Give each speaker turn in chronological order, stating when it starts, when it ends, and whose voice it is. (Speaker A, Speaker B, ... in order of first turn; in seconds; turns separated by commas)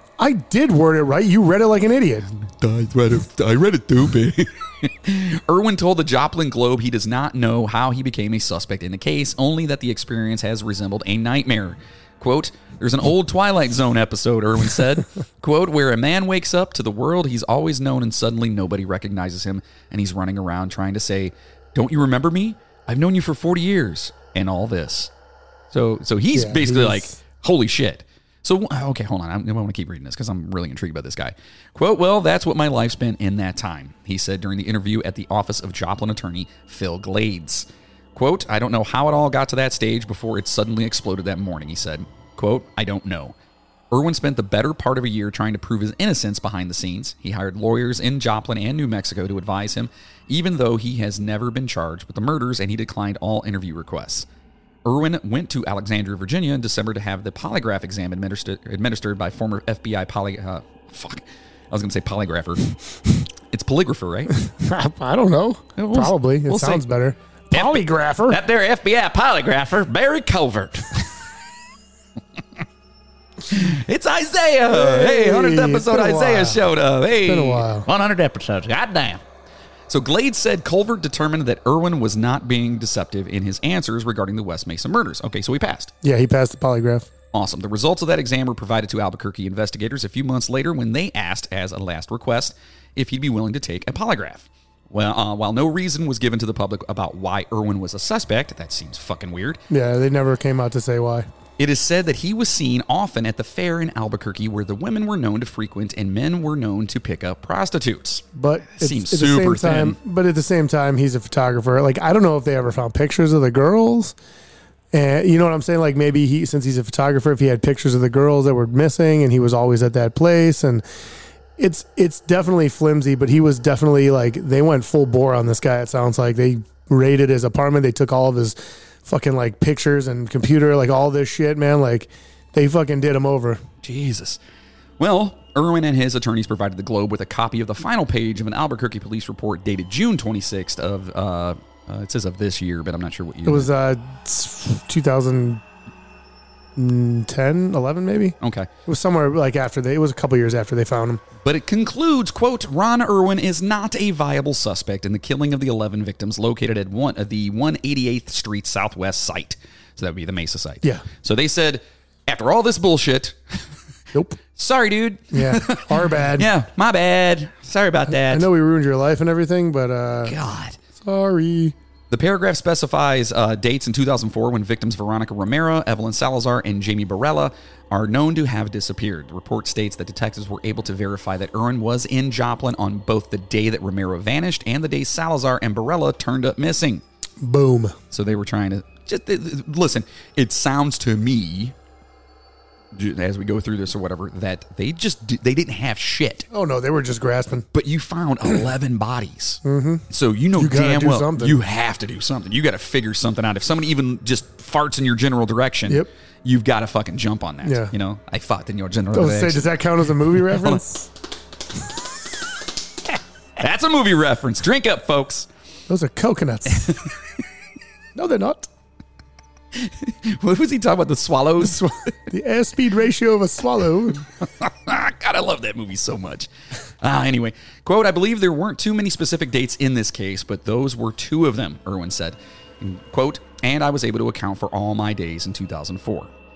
Speaker A: 0.2-2.3, Speaker B: 2.4-25.1, Speaker B: 25.7-43.4, Speaker A: 26.3-27.2, Speaker B: 43.9-54.3, Speaker B: 54.9-62.7, Speaker B: 63.5-64.3, Speaker A: 64.4-68.4, Speaker B: 65.8-66.8, Speaker B: 67.5-71.1, Speaker B: 73.5-79.2, Speaker A: 74.7-76.6, Speaker A: 77.2-77.9, Speaker B: 79.9-85.9, Speaker A: 86.0-87.1, Speaker B: 87.3-99.6, Speaker A: 99.7-101.3, Speaker B: 101.6-110.0, Speaker A: 108.4-114.2, Speaker A: 114.9-120.8, Speaker A: 121.6-133.6, Speaker B: 133.8-134.4, Speaker B: 135.0-143.7, Speaker A: 143.5-145.6, Speaker A: 146.8-148.3, Speaker B: 148.4-148.7, Speaker A: 148.9-151.2, Speaker B: 151.4-163.6, Speaker B: 164.6-168.5, Speaker A: 165.3-166.5, Speaker A: 168.1-170.3, Speaker B: 170.2-170.8, Speaker A: 171.0-171.8, Speaker B: 172.1-187.0, Speaker A: 187.4-188.0, Speaker B: 188.1-191.7, Speaker B: 192.9-196.5, Speaker A: 196.5-197.7, Speaker B: 197.7-209.7, Speaker A: 199.7-201.6, Speaker A: 207.6-207.9, Speaker A: 209.1-211.1, Speaker B: 210.4-210.8, Speaker B: 213.6-215.5, Speaker A: 215.9-217.0, Speaker A: 218.2-218.7, Speaker B: 219.8-221.8, Speaker A: 221.6-224.2, Speaker B: 224.4-226.5, Speaker B: 227.0-236.3